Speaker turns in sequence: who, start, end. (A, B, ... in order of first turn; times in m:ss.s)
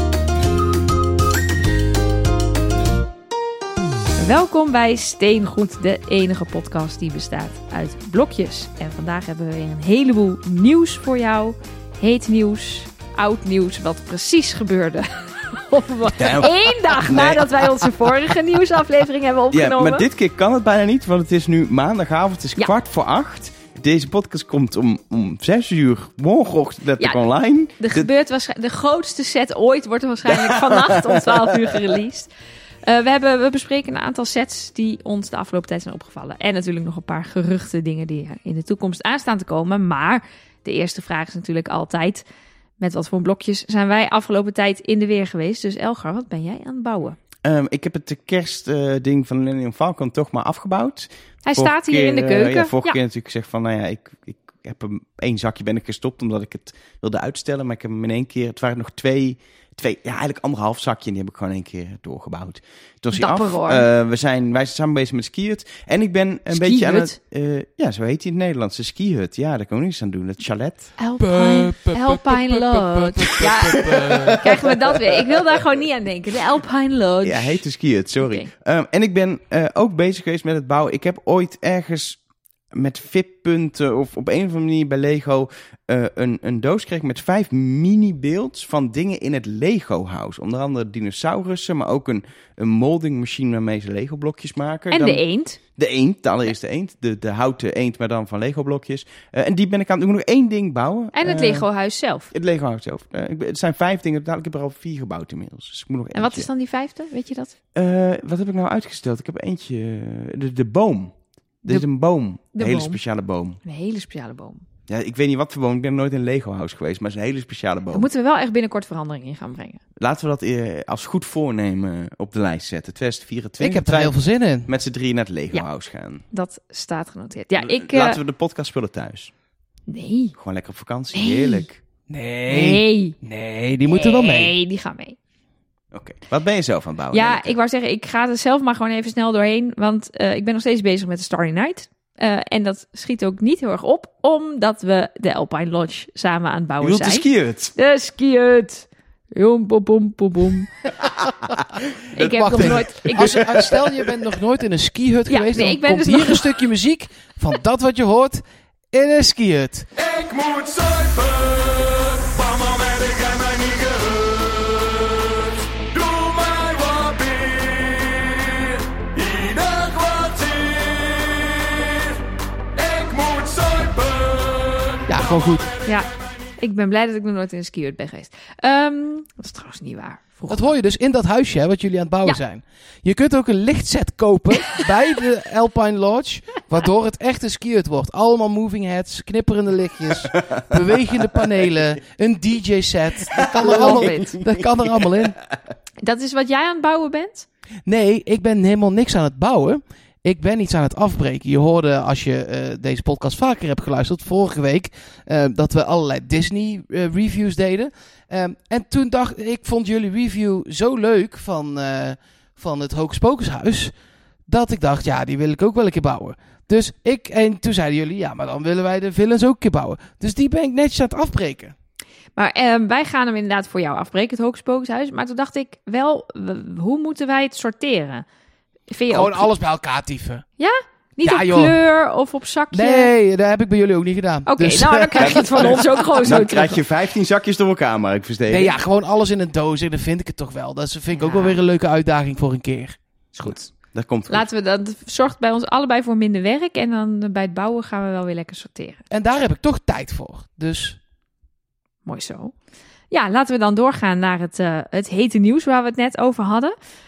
0:04.2-0:20.0 A
0:16.2-0:18.0 B
0:19.5-0:28.1 B
0:27.8-0:32.3 A
0:30.3-0:31.5 B
0:32.8-0:42.2 A
0:42.8-0:47.2 A
0:47.4-1:11.0 B
0:51.4-0:53.0 A
1:03.1-1:03.8 A
1:06.5-1:07.1 A
1:11.0-1:17.6 A
1:11.2-1:14.4 C
1:14.0-1:14.4 B
1:17.2-1:22.2 B
1:18.2-1:18.5 A
1:22.7-1:35.2 B
1:34.9-1:35.6 A
1:35.7-1:41.6 B
1:41.1-1:42.3 A
1:42.3-1:46.5 B
1:46.1-1:47.5 A
1:47.7-1:53.6 B
1:52.5-1:53.0 A
1:53.6-1:54.6 A
1:54.9-1:58.1 B
1:57.9-1:59.8 A
2:00.0-2:04.1 B
2:03.6-2:04.7 C
2:04.6-2:06.2 B
2:06.3-2:08.2 A
2:07.5-2:09.3 B
2:09.9-2:10.3 A
2:10.4-2:11.8 B
2:11.1-2:11.6 A
2:12.1-2:14.5 C
2:12.5-2:13.2 A
2:13.9-2:15.2 A
2:15.9-2:17.5 B
2:17.1-2:30.7 A
2:26.8-2:27.7 B
2:31.0-2:31.3 B
2:32.1-2:33.6 A
2:32.2-2:34.1 B
2:32.2-2:39.9 C
2:35.3-2:36.5 A
2:40.0-2:45.2 B
2:45.9-2:52.0 B
2:52.8-2:55.0 B
2:55.1-2:55.7 C
2:55.8-3:00.7 A
3:00.5-3:15.4 C
3:13.4-3:15.2 B
3:13.5-3:14.3 A
3:16.0-3:17.5 A
3:17.8-3:33.9 C
3:34.5-3:41.7 C
3:42.4-3:48.2 A
3:48.9-3:49.5 A
3:49.1-3:50.4 C
3:50.6-3:53.1 A
3:51.2-3:51.8 C
3:52.7-3:56.4 C
3:54.5-3:56.8 A
3:55.2-3:58.8 B
3:58.5-4:03.5 C
4:01.1-4:01.6 A
4:03.4-4:04.4 B
4:04.3-4:09.0 A
4:09.1-4:11.0 C
4:12.0-4:12.5 A
4:13.1-4:16.7 A